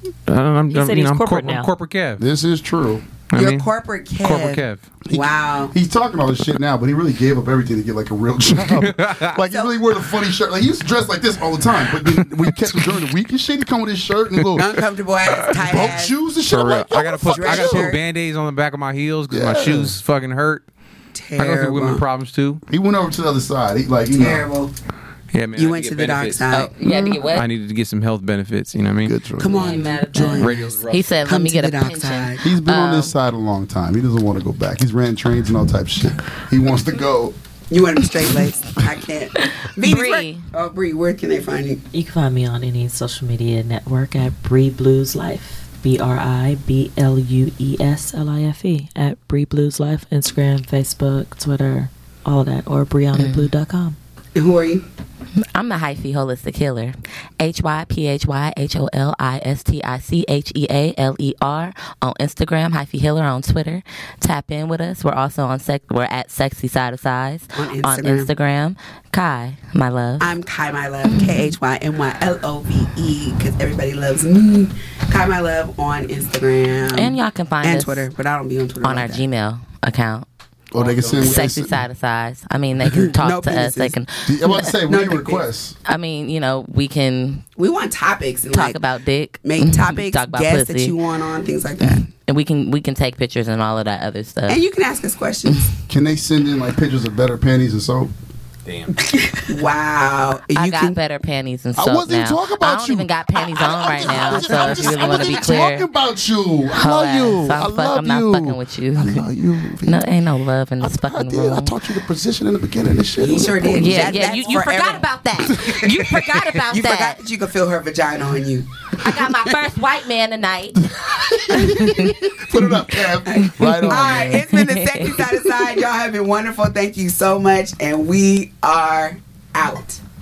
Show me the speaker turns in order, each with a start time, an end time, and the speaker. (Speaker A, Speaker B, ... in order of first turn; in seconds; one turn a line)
Speaker A: 0.3-2.2
Speaker B: 0.7-1.7
Speaker C: 2.2-3.1
Speaker A: 3.3-3.7
Speaker D: 3.3-5.7
Speaker A: 4.2-4.8
Speaker C: 5.0-14.7
Speaker A: 8.7-9.4
Speaker A: 12.0-12.9
Speaker D: 14.5-16.1
Speaker C: 15.4-17.9
Speaker A: 16.5-20.6
Speaker D: 17.2-18.0
Speaker C: 19.3-19.9
Speaker D: 21.1-22.0
Speaker A: 21.4-22.6
Speaker C: 22.7-24.5
Speaker D: 24.1-24.7
Speaker A: 25.3-26.5
Speaker D: 25.5-26.7
Speaker E: 26.5-27.5
Speaker A: 27.1-29.2
Speaker C: 29.0-29.9
Speaker D: 29.4-32.5
Speaker E: 29.5-33.1
Speaker A: 30.2-31.1
Speaker C: 32.4-37.3
Speaker D: 37.7-41.8
Speaker E: 39.6-40.5
Speaker B: 41.9-54.0
Speaker E: 53.1-53.5
Speaker D: 54.4-54.8
Speaker E: 55.4-70.3
Speaker D: 67.5-68.3
Speaker D: 70.2-79.2
Speaker E: 71.0-71.5
Speaker E: 76.9-78.1
Speaker E: 78.8-80.2
Speaker C: 80.7-81.8
Speaker A: 80.7-81.5
Speaker E: 81.2-84.7
Speaker D: 83.1-83.9
Speaker C: 84.2-85.8
Speaker D: 84.8-85.4
Speaker E: 85.8-87.4
Speaker D: 87.5-88.8
Speaker E: 88.5-91.0
Speaker D: 89.4-92.1
Speaker E: 91.8-94.6
Speaker D: 94.5-95.7
Speaker C: 95.9-98.1
Speaker A: 98.7-99.0
Speaker D: 99.0-101.0
Speaker E: 100.5-105.9
Speaker C: 101.8-110.0
Speaker D: 103.6-105.3
Speaker E: 106.7-109.3
Speaker E: 109.8-111.8
Speaker C: 110.8-114.4
Speaker D: 113.2-115.7
Speaker E: 113.7-117.2
Speaker C: 115.4-116.4
Speaker D: 116.7-118.7
Speaker E: 119.0-120.8
Speaker C: 120.8-124.5
Speaker E: 121.5-122.2
Speaker D: 123.3-130.0
Speaker E: 123.3-125.5